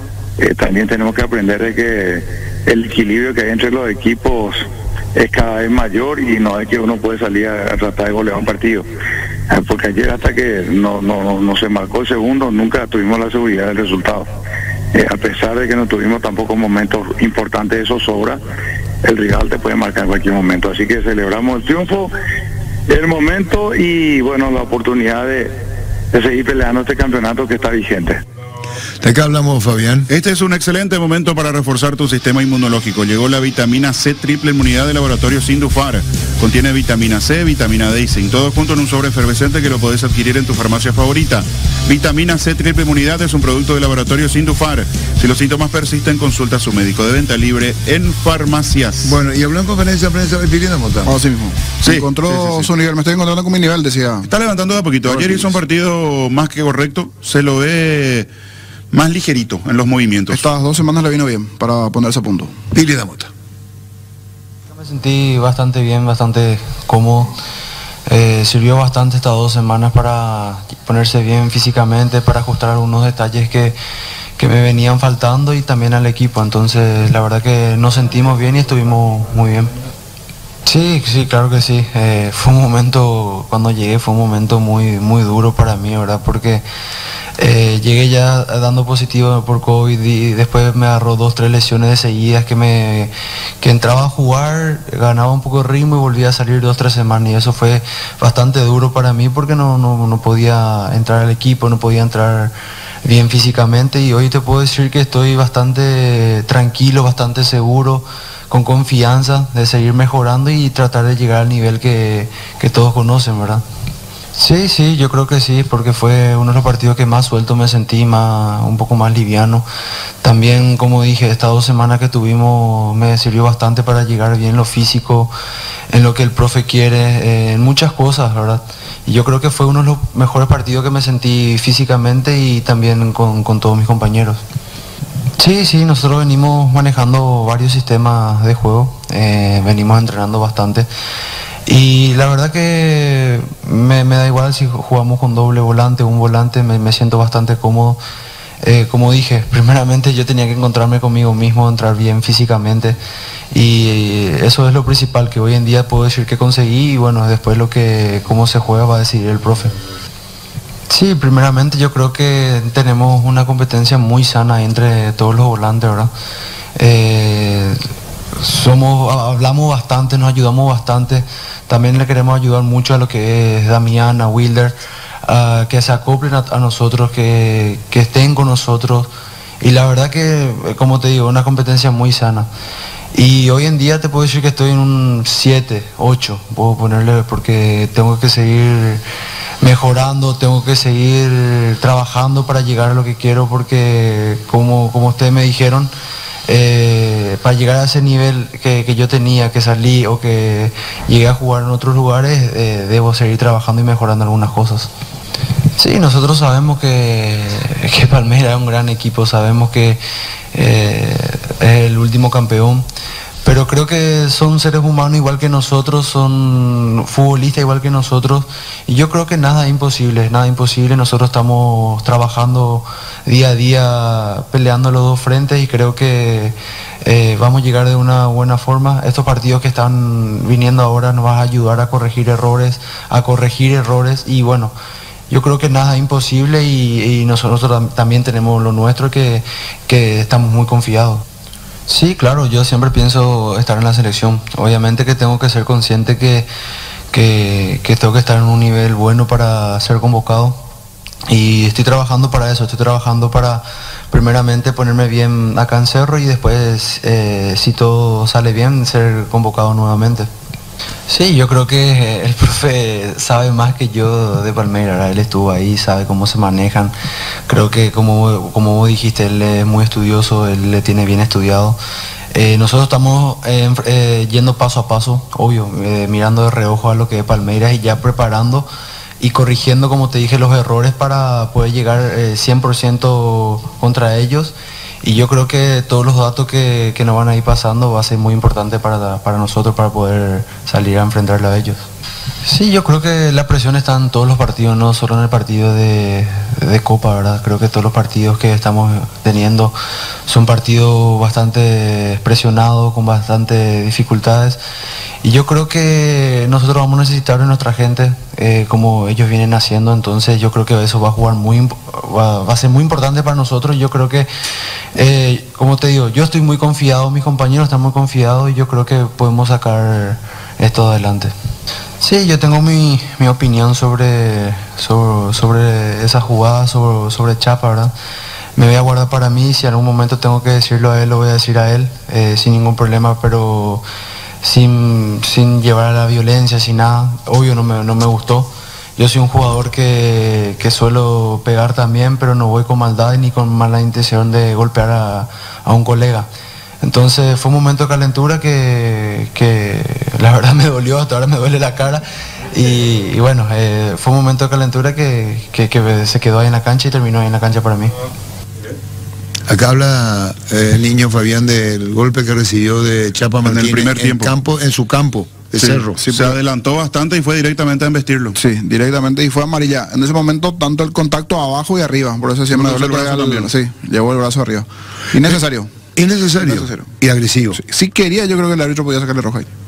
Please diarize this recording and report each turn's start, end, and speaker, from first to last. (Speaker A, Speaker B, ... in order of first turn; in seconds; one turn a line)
Speaker A: 0.4-8.9
Speaker A: 9.5-14.3
Speaker A: 14.9-18.4
Speaker A: 19.0-22.1
Speaker A: 22.9-25.5
Speaker A: 26.1-28.2
Speaker B: 29.0-30.1
Speaker C: 30.1-49.2
Speaker B: 49.0-51.1
Speaker D: 51.0-54.3
Speaker C: 51.8-52.7
Speaker C: 54.2-58.3
Speaker D: 55.0-55.6
Speaker C: 58.9-60.5
Speaker D: 60.3-62.5
Speaker B: 62.7-63.3
Speaker E: 64.7-67.3
Speaker E: 68.1-73.8
Speaker E: 74.4-79.7
Speaker E: 80.6-86.6
Speaker E: 87.4-102.5
Speaker E: 103.0-113.6
Speaker E: 114.3-119.7
Speaker E: 120.2-125.3
Speaker E: 125.9-134.4
Speaker E: 135.4-140.9
Speaker E: 141.7-148.0
Speaker E: 148.6-153.0
Speaker E: 153.5-159.7
Speaker E: 160.9-166.1
Speaker E: 166.8-167.8
Speaker E: 168.4-179.1
Speaker E: 179.6-182.5
Speaker E: 183.1-189.0
Speaker E: 189.6-195.9
Speaker E: 196.5-204.9
Speaker E: 205.8-210.0
Speaker E: 210.5-212.8
Speaker E: 213.4-234.7
Speaker E: 235.3-241.2
Speaker E: 241.9-246.5
Speaker E: 247.1-250.6
Speaker E: 251.3-260.3
Speaker E: 261.1-266.9
Speaker E: 267.5-271.8
Speaker E: 272.3-278.7
Speaker E: 279.2-291.8
Speaker E: 292.4-299.7
Speaker E: 300.3-304.6
Speaker E: 305.2-314.3
Speaker E: 314.9-321.3
Speaker E: 322.0-327.9
Speaker E: 328.6-333.8
Speaker E: 334.4-346.3
Speaker E: 346.8-357.9
Speaker B: 359.5-366.0
Speaker C: 363.4-364.3
Speaker C: 365.6-368.4
Speaker D: 366.0-366.3
Speaker D: 368.3-375.7
Speaker C: 372.5-373.5
Speaker B: 375.9-377.6
Speaker D: 376.5-376.9
Speaker D: 377.6-379.5